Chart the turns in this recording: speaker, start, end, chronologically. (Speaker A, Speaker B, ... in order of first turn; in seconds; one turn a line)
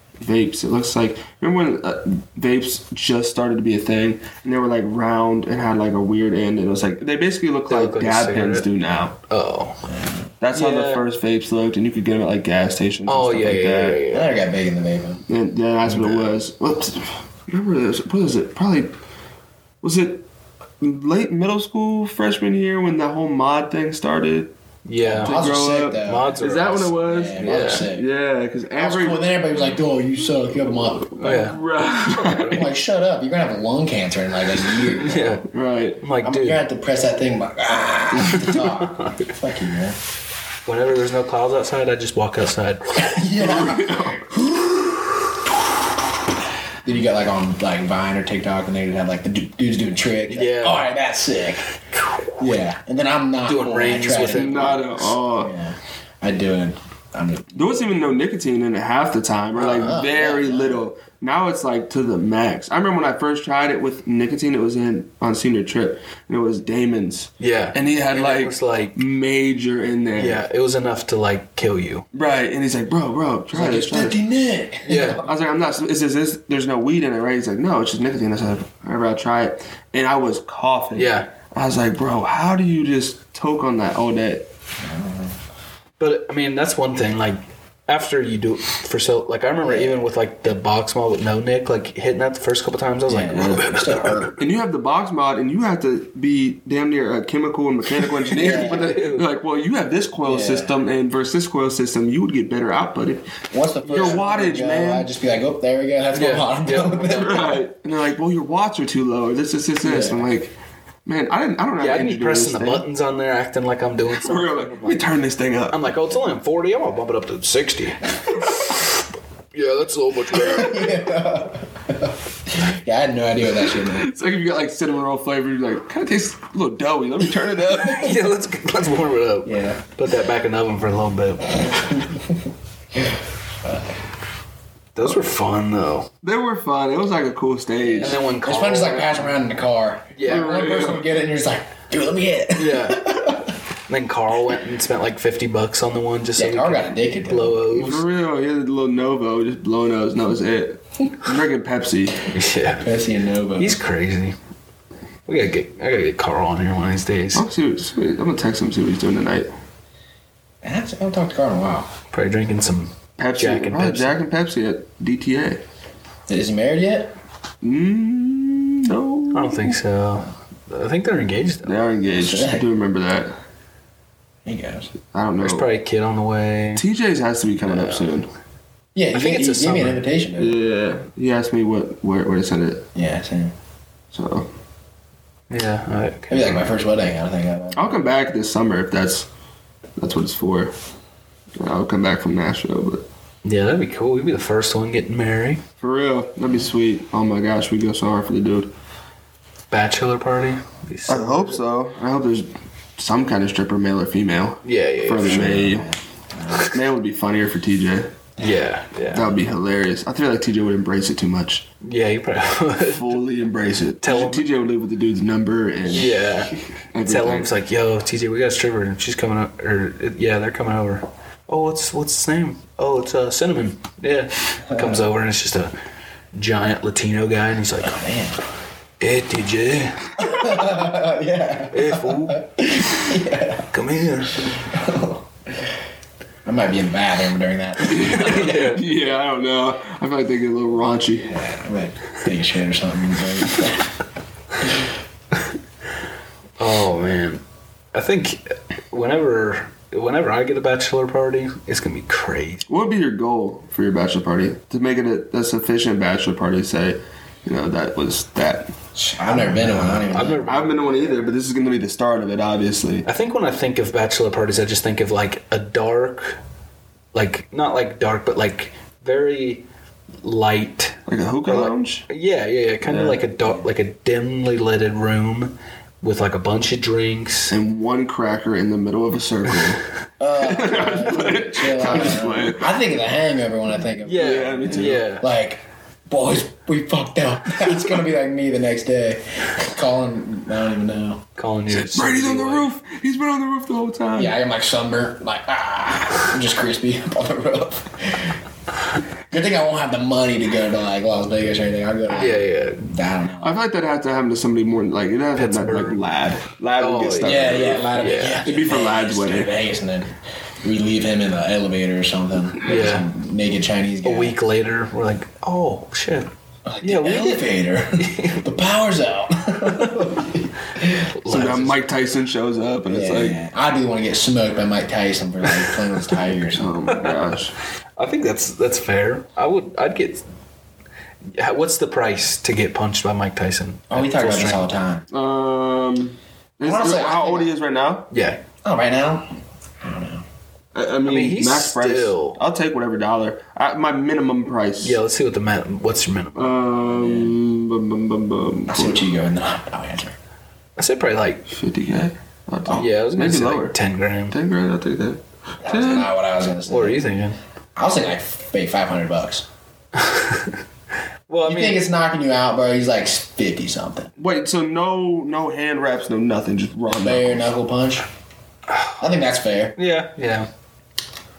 Speaker A: 0.2-9.1
Speaker B: 7.7-8.7
Speaker B: 9.3-9.8
Speaker C: 9.9-10.3
Speaker A: 10.4-14.0
Speaker B: 10.5-11.0
Speaker B: 13.1-14.3
Speaker C: 14.1-15.2
Speaker A: 15.3-18.9
Speaker B: 15.9-16.3
Speaker A: 19.8-20.2
Speaker A: 20.8-24.5
Speaker B: 24.9-25.4
Speaker C: 25.0-26.4
Speaker A: 25.2-29.3
Speaker B: 26.0-27.9
Speaker C: 27.0-28.1
Speaker C: 28.7-31.4
Speaker A: 30.9-32.6
Speaker B: 31.2-32.7
Speaker C: 32.2-35.4
Speaker B: 35.0-35.4
Speaker A: 35.5-36.0
Speaker B: 36.0-36.6
Speaker C: 36.2-40.0
Speaker B: 38.2-39.3
Speaker B: 40.6-43.3
Speaker C: 43.0-45.1
Speaker A: 43.4-44.3
Speaker C: 46.8-51.6
Speaker B: 50.3-50.9
Speaker C: 52.4-57.6
Speaker B: 53.5-55.0
Speaker A: 54.3-55.5
Speaker A: 57.5-70.4
Speaker C: 59.6-60.8
Speaker B: 67.4-69.0
Speaker B: 70.2-72.0
Speaker A: 72.1-74.2
Speaker C: 73.5-75.3
Speaker B: 74.8-75.2
Speaker A: 75.1-84.5
Speaker B: 80.9-81.3
Speaker C: 84.8-85.3
Speaker B: 86.0-94.3
Speaker C: 89.6-90.0
Speaker C: 93.1-94.4
Speaker A: 93.3-93.6
Speaker A: 94.4-103.2
Speaker B: 98.3-99.2
Speaker C: 98.4-98.9
Speaker C: 100.2-100.7
Speaker C: 103.5-107.6
Speaker B: 103.8-104.2
Speaker A: 103.9-105.1
Speaker B: 106.1-107.5
Speaker A: 107.1-110.5
Speaker C: 109.8-110.2
Speaker A: 111.0-112.8
Speaker B: 111.8-115.1
Speaker A: 114.1-115.9
Speaker B: 115.7-118.9
Speaker B: 119.5-121.0
Speaker C: 120.3-124.1
Speaker A: 123.7-128.2
Speaker B: 127.7-132.0
Speaker C: 129.4-129.8
Speaker C: 131.7-132.4
Speaker C: 133.0-133.9
Speaker B: 134.9-136.1
Speaker A: 136.2-138.2
Speaker B: 137.8-139.3
Speaker C: 138.0-143.5
Speaker B: 140.1-140.6
Speaker A: 140.2-141.1
Speaker B: 142.6-143.3
Speaker B: 143.9-148.0
Speaker C: 146.4-147.6
Speaker A: 147.7-152.2
Speaker B: 152.3-152.9
Speaker C: 152.8-153.8
Speaker B: 153.6-154.3
Speaker B: 155.3-157.4
Speaker A: 157.3-159.5
Speaker C: 160.6-161.9
Speaker B: 162.1-164.2
Speaker A: 163.2-165.6
Speaker C: 166.3-167.1
Speaker A: 167.6-169.8
Speaker B: 169.3-171.8
Speaker A: 171.7-173.3
Speaker C: 172.1-172.6
Speaker C: 174.4-174.9
Speaker A: 175.1-175.7
Speaker B: 175.4-176.8
Speaker A: 176.8-178.3
Speaker B: 177.7-178.1
Speaker C: 178.9-180.6
Speaker B: 179.1-180.1
Speaker A: 180.4-182.8
Speaker C: 182.9-183.5
Speaker A: 184.1-184.5
Speaker B: 185.5-186.7
Speaker C: 186.3-188.1
Speaker A: 187.7-189.3
Speaker A: 190.0-190.7
Speaker A: 191.6-193.0
Speaker B: 193.4-195.6
Speaker A: 195.8-198.7
Speaker B: 199.7-201.6
Speaker A: 201.1-205.9
Speaker B: 204.6-205.5
Speaker C: 205.2-206.7
Speaker A: 206.7-208.1
Speaker B: 208.4-209.3
Speaker A: 209.1-211.7
Speaker B: 211.8-213.2
Speaker A: 212.8-216.1
Speaker B: 214.0-214.4
Speaker B: 215.9-225.7
Speaker A: 216.9-217.5
Speaker C: 224.7-225.0
Speaker B: 226.3-228.0
Speaker C: 227.8-228.4
Speaker B: 229.0-230.8
Speaker C: 230.2-233.7
Speaker B: 231.7-232.4
Speaker B: 233.7-234.6
Speaker C: 234.5-235.7
Speaker C: 236.4-238.5
Speaker A: 237.8-241.4
Speaker B: 237.9-238.8
Speaker C: 241.3-243.9
Speaker B: 246.6-247.4
Speaker B: 247.9-252.7
Speaker A: 252.7-258.7
Speaker C: 258.9-260.4
Speaker B: 259.4-261.2
Speaker A: 260.4-263.1
Speaker B: 263.0-266.4
Speaker B: 267.1-269.6
Speaker B: 270.2-277.5
Speaker A: 271.1-272.1
Speaker A: 272.9-273.2
Speaker A: 277.5-279.8
Speaker C: 280.2-291.2
Speaker A: 280.4-282.7
Speaker B: 284.0-285.2
Speaker A: 284.1-285.0
Speaker B: 291.4-292.7
Speaker A: 291.7-294.3
Speaker C: 294.1-298.4
Speaker C: 299.3-303.6
Speaker B: 302.1-302.9
Speaker A: 303.4-309.5
Speaker B: 305.4-306.0
Speaker B: 306.8-308.4
Speaker C: 307.2-314.3
Speaker B: 312.6-313.1
Speaker B: 314.0-316.3
Speaker C: 316.6-321.1
Speaker B: 316.8-318.4
Speaker B: 321.1-321.8
Speaker A: 321.3-323.4
Speaker C: 322.9-326.9
Speaker A: 326.5-327.5
Speaker B: 326.9-327.2
Speaker B: 328.0-330.2
Speaker B: 331.3-334.6
Speaker C: 333.9-335.1
Speaker A: 335.1-338.1
Speaker C: 336.6-337.5
Speaker B: 338.1-338.4
Speaker C: 338.6-340.2
Speaker A: 340.7-345.0
Speaker B: 341.0-342.4
Speaker B: 344.8-346.6
Speaker A: 346.4-349.0
Speaker C: 346.8-347.4
Speaker C: 348.7-350.1
Speaker B: 350.8-351.4
Speaker A: 351.5-353.8
Speaker B: 352.7-354.4
Speaker A: 354.3-356.1
Speaker C: 355.6-357.0
Speaker B: 356.7-357.4
Speaker C: 357.8-359.4
Speaker B: 359.9-360.6
Speaker B: 361.3-361.8
Speaker C: 361.4-364.1
Speaker A: 364.2-367.5
Speaker C: 366.9-368.1
Speaker B: 368.7-369.2
Speaker C: 369.0-369.8
Speaker B: 369.8-370.5